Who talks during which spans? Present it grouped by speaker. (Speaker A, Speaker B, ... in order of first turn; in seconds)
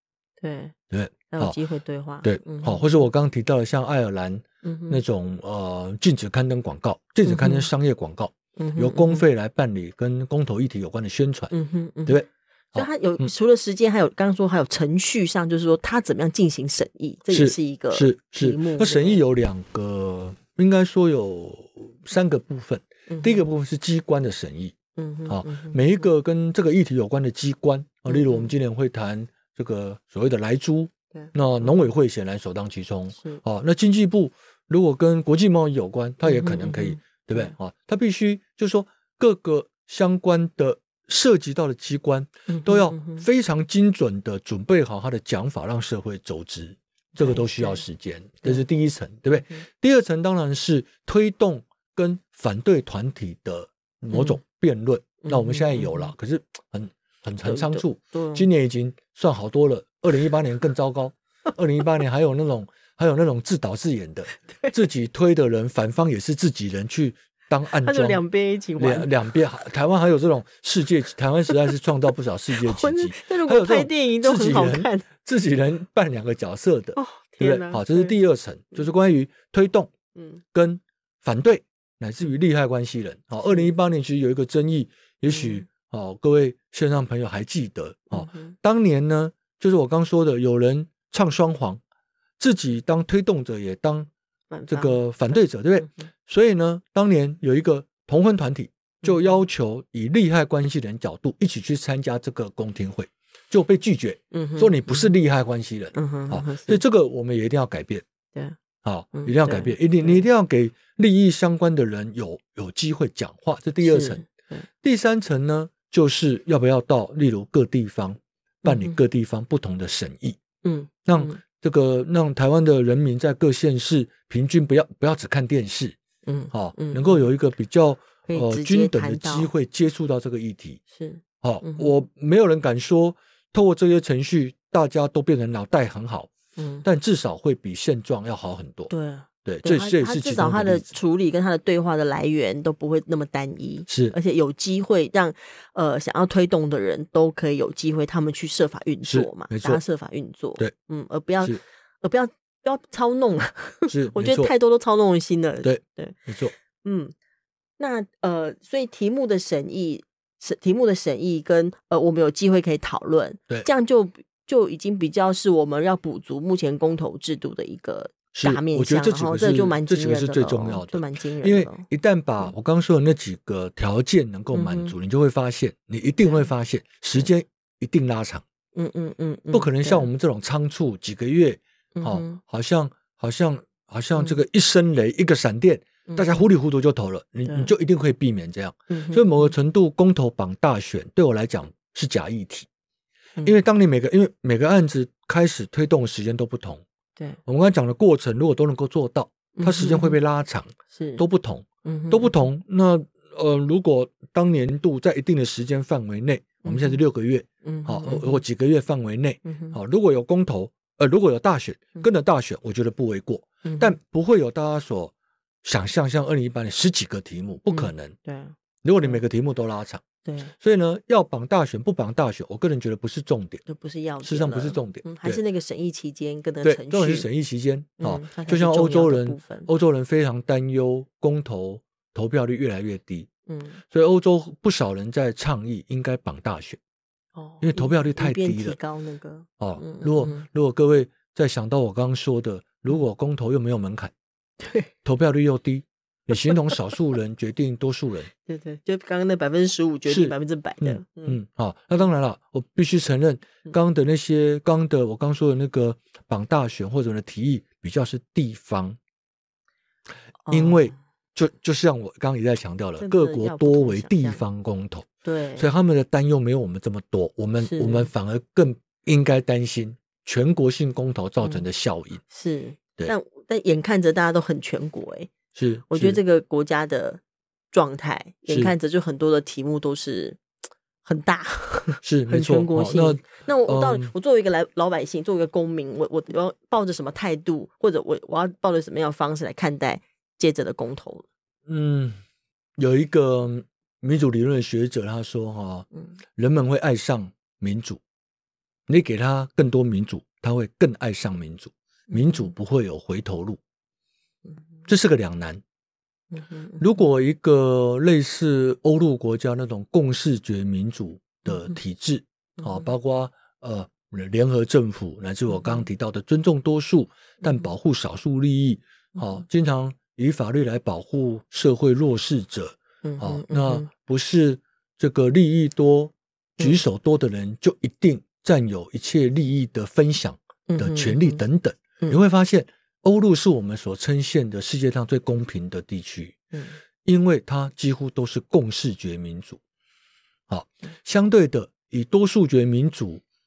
Speaker A: 0.4-0.7, 1.3-3.0, 4.6-5.0, 7.2-7.7, 8.6-9.2, 11.5-12.2, 12.7-19.2, 23.1-23.5, 24.9-25.8, 28.1-28.5, 31.1-31.7, 33.2-33.4, 36.2-37.5, 42.5-43.2, 47.1-47.8, 54.1-54.4, 55.2-56.1, 57.4-58.5, 64.5-64.7, 67.7-69.3, 72.5-75.0, 77.0-78.2, 80.1-80.4, 83.4-83.7, 85.3-85.6, 88.1-88.5, 94.5-96.1, 99.0-99.4, 104.3-105.2, 105.9-106.8, 109.1-110.2, 113.8-114.7, 118.6-119.0, 120.6-121.4, 126.2-127.3, 128.3-129.5, 130.9-131.9, 136.6-136.8, 138.9-156.2, 156.8-157.1, 157.8-171.9, 174.5-174.9, 176.2-176.5, 178.8-180.1, 181.9-182.4, 184.1-184.4, 186.1-186.4, 187.4-187.7, 188.9-189.5, 199.6-200.2, 200.9-201.2, 201.8-202.4, 206.6-207.0, 207.6-208.4, 209.4-209.8, 213.6-213.9, 217.7-219.2, 220.2-220.5, 223.7-227.3, 228.0-229.7, 233.5-233.8, 237.3-240.4, 244.6-244.9, 248.4-251.4, 260.5-260.9, 263.0-264.4, 265.2-265.7, 267.6-268.1, 272.3-275.3, 275.9-277.2, 277.7-280.4, 281.0-291.2, 302.1-302.5, 306.3-306.8, 311.5-311.8, 312.6-312.9, 323.0-323.9, 330.7-331.4
Speaker B: 0.9-1.6, 2.2-11.5, 12.1-13.3, 17.3-24.8, 25.3-68.2, 68.8-79.9, 80.5-91.8, 92.4-94.1, 94.7-108.0, 108.8-114.2, 114.8-120.4, 121.0-126.0, 126.5-130.8, 131.4-136.3, 136.8-138.9, 139.4-140.9, 143.9-144.1, 149.0-149.8, 153.9-154.5, 155.6-156.5, 168.3-178.4, 179.5-192.7, 193.4-196.8, 197.4-215.1, 215.6-218.2, 218.8-220.0, 220.6-223.6, 224.2-225.4, 226.6-233.3, 233.9-236.8, 237.6-238.8, 239.6-244.1, 245.0-248.3, 250.1-259.0, 260.5-272.2, 275.5-276.2, 278.5-278.7, 282.0-284.1, 291.7-292.2, 292.8-298.0, 298.9-303.6, 304.9-305.6, 306.8-336.4, 337.0-339.6, 340.5-343.2